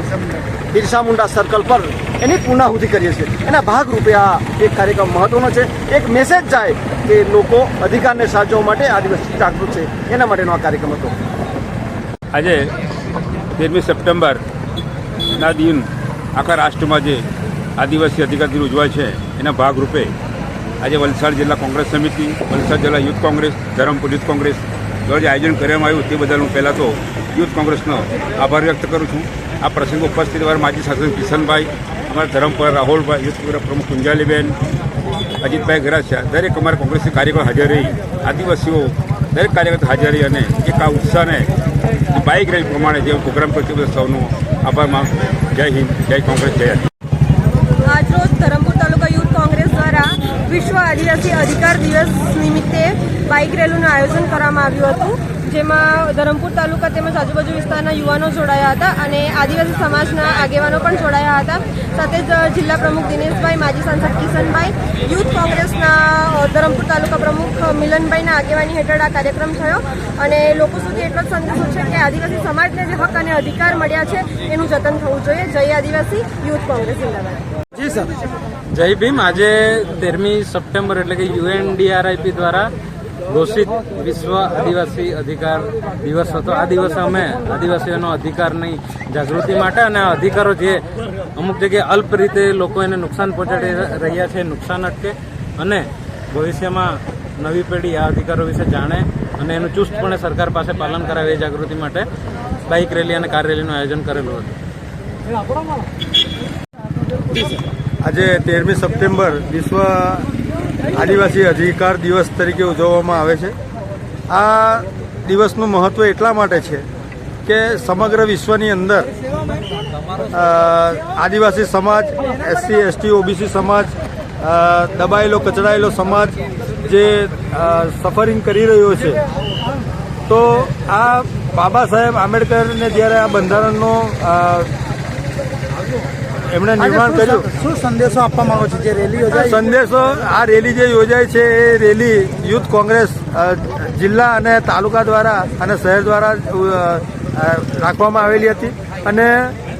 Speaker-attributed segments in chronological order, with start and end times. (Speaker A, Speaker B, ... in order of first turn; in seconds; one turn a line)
Speaker A: 0.8-11.1
Speaker B: 12.3-12.7
Speaker B: 13.6-14.4
Speaker B: 15.3-17.2
Speaker B: 17.8-20.1
Speaker B: 20.8-34.5
Speaker B: 35.4-41.5
Speaker B: 42.1-46.9
Speaker C: 47.8-77.4
Speaker D: 77.8-78.1
Speaker E: 78.7-82.7
Speaker E: 83.3-90.8
Speaker E: 91.3-102.1
Speaker E: 102.7-104.5
Speaker F: 108.0-110.2
Speaker F: 110.9-113.5
Speaker F: 114.3-116.8
Speaker F: 117.5-119.1
Speaker F: 120.3-129.2
Speaker F: 130.3-134.7
Speaker F: 136.5-137.4
Speaker D: 136.8-139.7
Speaker F: 139.3-149.5